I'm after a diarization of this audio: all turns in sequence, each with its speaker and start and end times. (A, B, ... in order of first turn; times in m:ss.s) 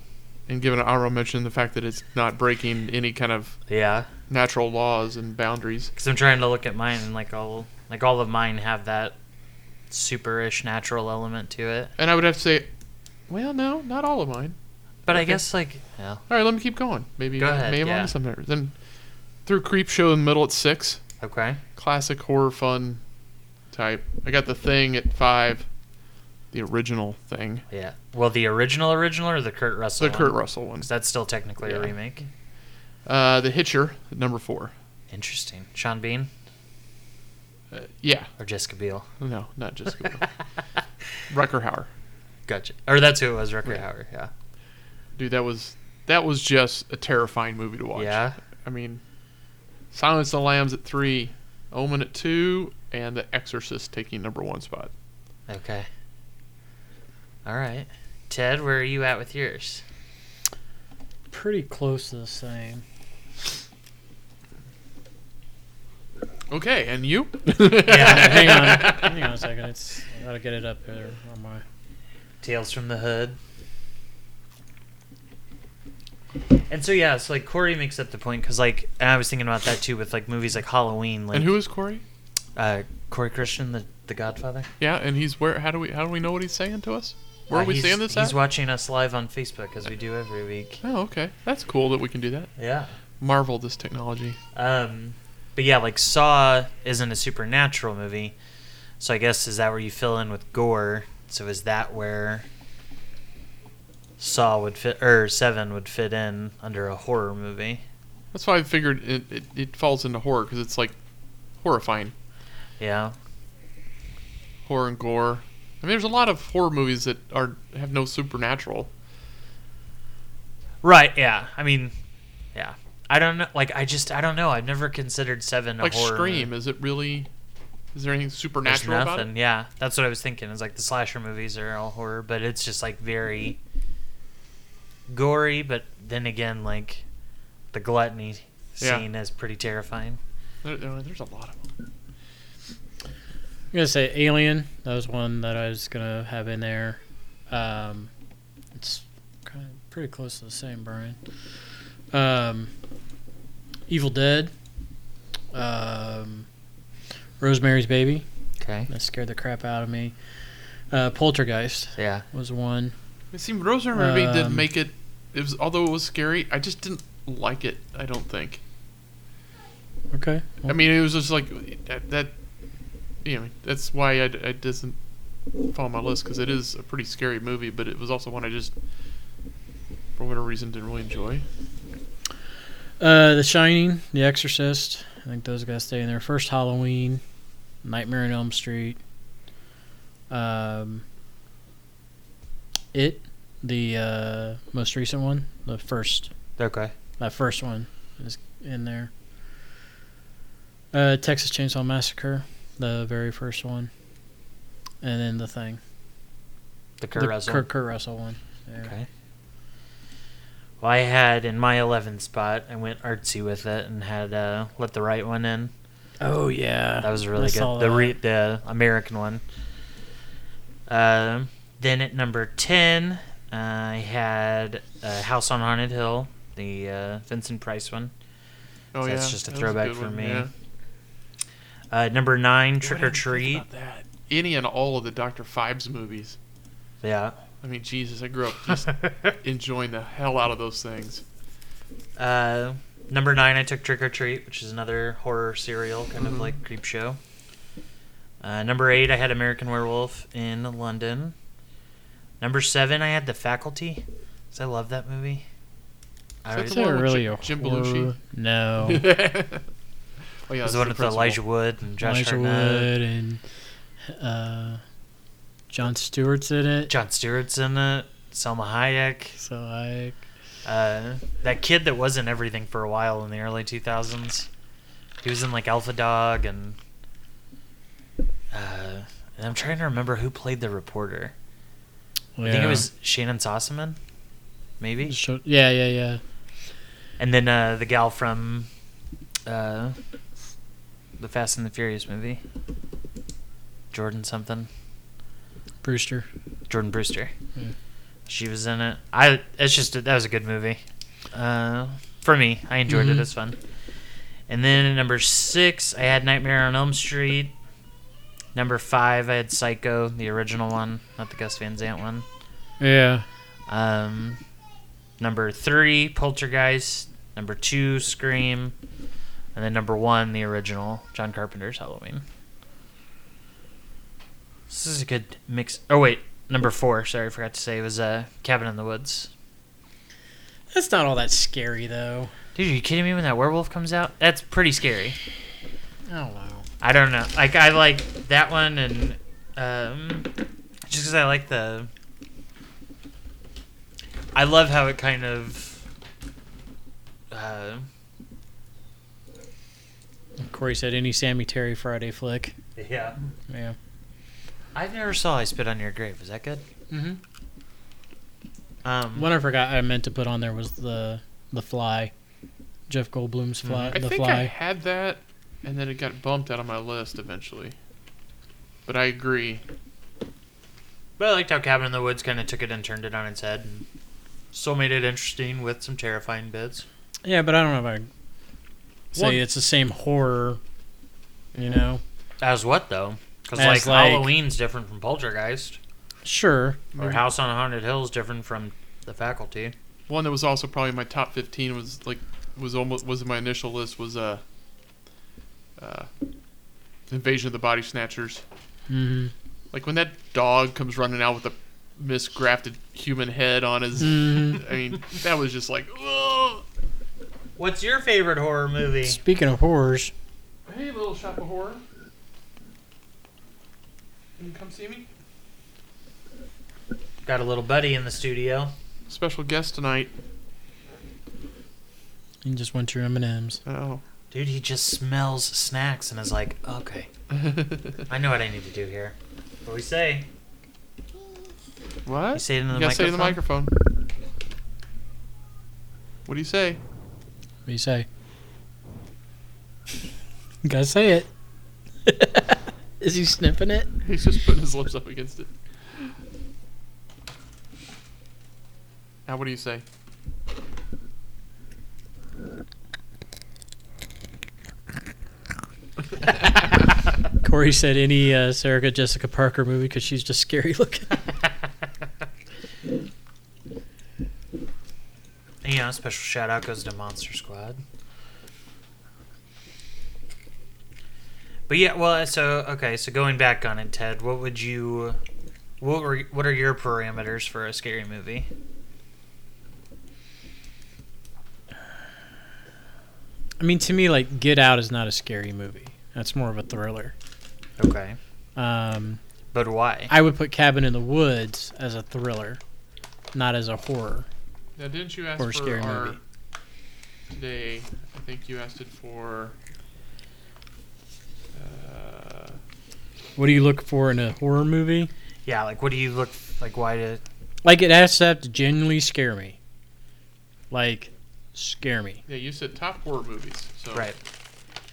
0:00.5-0:03.6 A
0:03.7-0:04.1 B
0:04.3-0:05.9 A
0:06.0-0:09.2 B
0:09.9-0:11.9 B
0:12.0-0:12.7 A
0:13.3-0:14.6 A
0:15.1-0:16.2 B
0:15.1-0:15.4 A
0:16.3-0:18.7 A
0:17.4-0:18.1 B
0:19.4-0:21.0 A
0:21.2-0:21.6 B
0:21.8-0:23.0 A
0:23.7-0:25.7 A
0:26.5-0:27.6 A
0:27.7-0:32.2 B
0:30.0-0:30.9 A
0:31.6-0:31.9 A
0:33.0-0:34.7 A
0:35.1-0:36.3 B
0:37.7-0:38.3 A
0:38.4-0:39.1 B
0:39.2-0:40.3 A
0:41.3-0:41.9 A
0:42.5-0:44.3 B
0:45.1-0:49.0 A
0:47.9-0:48.4 B
0:49.9-0:54.9 A
0:55.5-0:55.9 B
0:57.4-0:59.8 B
1:01.3-1:02.8 C
1:06.5-1:09.2 A
1:07.6-1:11.6 C
1:07.8-1:09.0 B
1:12.4-1:13.4 B
1:16.7-1:21.5 B
1:21.3-1:22.0 A
1:22.6-1:24.7 B
1:24.8-1:28.4 A
1:27.5-1:30.8 B
1:30.8-1:32.5 A
1:32.6-1:32.9 B
1:33.2-1:34.4 A
1:34.5-1:38.3 B
1:39.0-1:42.5 B
1:44.2-1:47.8 B
1:48.3-1:51.0 A
1:51.6-1:52.1 A
1:52.8-1:53.2 B
1:54.6-1:58.9 A
2:00.8-2:01.9 B
2:02.5-2:06.5 B
2:05.8-2:07.3 A
2:07.9-2:09.3 A
2:08.6-2:13.6 B
2:15.1-2:17.0 B
2:17.7-2:20.2 B
2:18.8-2:19.0 A
2:20.6-2:21.7 A
2:23.7-2:28.1 C
2:28.7-2:31.2 C
2:32.1-2:32.7 C
2:33.9-2:34.5 C
2:35.5-2:36.5 C
2:37.4-2:38.2 C
2:38.6-2:38.9 B
2:38.9-2:40.1 C
2:40.9-2:42.9 C
2:42.0-2:42.2 B
2:43.3-2:48.6 A
2:43.9-2:44.6 C
2:50.1-2:50.8 C
2:50.7-2:52.3 A
2:53.2-2:55.0 A
2:55.7-2:58.7 A
3:00.2-3:01.4 A
3:03.0-3:07.2 C
3:07.8-3:09.0 C
3:10.3-3:11.0 C
3:12.9-3:16.3 C
3:16.6-3:16.9 B
3:17.2-3:19.1 C
3:20.9-3:23.9 C
3:25.0-3:25.8 C
3:27.0-3:27.7 B
3:27.2-3:28.9 C
3:28.8-3:29.1 B
3:30.8-3:35.7 B
3:36.2-3:38.2 C
3:37.0-3:39.4 B
3:40.9-3:48.1 B
3:48.9-3:50.5 A
3:49.0-3:50.5 B
3:51.9-3:53.6 B
3:52.8-3:56.4 A
3:57.0-3:57.4 B
3:57.6-4:01.2 A
4:02.2-4:07.2 B
4:06.2-4:06.5 A
4:08.4-4:11.3 B
4:12.4-4:15.4 B
4:16.4-4:16.8 B
4:16.5-4:18.1 A
4:16.6-4:19.1 C
4:18.8-4:19.6 A
4:20.5-4:21.4 A
4:20.6-4:22.9 B
4:22.0-4:23.4 C
4:24.1-4:24.8 C
4:25.7-4:26.9 C
4:26.9-4:29.4 B
4:29.4-4:30.2 C
4:30.6-4:34.5 B
4:35.2-4:36.8 B
4:38.5-4:41.3 B
4:42.4-4:42.9 C
4:42.4-4:44.0 B
4:44.8-4:45.1 B
4:45.0-4:46.2 C
4:47.2-4:48.7 B
4:49.4-4:50.0 B
4:51.2-4:52.4 B
4:53.9-4:54.7 B
4:55.8-4:56.2 C
4:56.7-4:57.3 B
4:58.3-5:00.8 B
5:01.3-5:03.6 B
5:02.9-5:03.2 C
5:04.5-5:07.5 B
5:08.5-5:12.2 B
5:12.8-5:13.2 C
5:13.7-5:14.4 B
5:15.2-5:18.7 B
5:19.5-5:22.2 B
5:24.7-5:29.3 B
5:30.7-5:32.3 C
5:32.5-5:35.2 B
5:36.1-5:36.6 C
5:36.8-5:40.3 B
5:40.9-5:41.9 B
5:44.3-5:45.8 B
5:47.3-5:47.9 B
5:50.4-5:52.6 C
5:52.8-5:53.2 B
5:53.5-5:53.8 C
5:54.7-5:56.6 B
5:56.9-5:57.2 C
5:58.8-5:59.3 B
5:59.2-6:02.1 C
6:02.9-6:04.5 C
6:03.6-6:03.9 B
6:03.9-6:07.7 A
6:08.8-6:09.6 A
6:11.2-6:13.8 B
6:14.5-6:16.8 B
6:17.2-6:18.1 C
6:19.1-6:20.6 C
6:19.1-6:19.4 A
6:21.5-6:21.8 A
6:21.6-6:22.0 C
6:22.4-6:25.8 B
6:23.6-6:24.3 C
6:26.2-6:26.8 C
6:26.9-6:27.2 A
6:27.0-6:29.7 B
6:30.1-6:34.4 A
6:35.8-6:36.1 A
6:37.1-6:38.4 A
6:38.9-6:39.3 C
6:39.7-6:46.6 A
6:44.0-6:44.6 C
6:47.6-6:49.2 B
6:49.0-6:50.1 C
6:50.6-6:51.8 A
6:54.4-6:55.1 A
6:57.2-6:58.7 B
6:59.1-7:00.1 A
7:02.4-7:03.6 C
7:03.6-7:04.0 A
7:04.3-7:07.1 B
7:07.3-7:08.0 A
7:08.1-7:10.3 B
7:12.0-7:13.7 A
7:12.3-7:13.4 B
7:16.2-7:16.8 A
7:17.6-7:18.1 C
7:20.6-7:21.3 C
7:22.0-7:23.9 C
7:24.0-7:26.1 A
7:29.2-7:29.8 A
7:37.4-7:41.2 C
7:45.6-7:47.8 B
7:51.7-7:55.2 B
7:55.8-7:58.5 B
8:03.6-8:07.1 C
8:07.8-8:08.2 B
8:08.6-8:09.2 C
8:09.5-8:10.1 B
8:10.1-8:12.6 C
8:13.3-8:14.3 C
8:14.8-8:16.2 A
8:15.4-8:16.2 C
8:17.3-8:19.6 A
8:21.5-8:22.6 A
8:23.4-8:25.1 C
8:25.4-8:27.2 B
8:27.6-8:29.6 C
8:30.7-8:32.2 C
8:32.3-8:34.1 A
8:33.9-8:34.2 B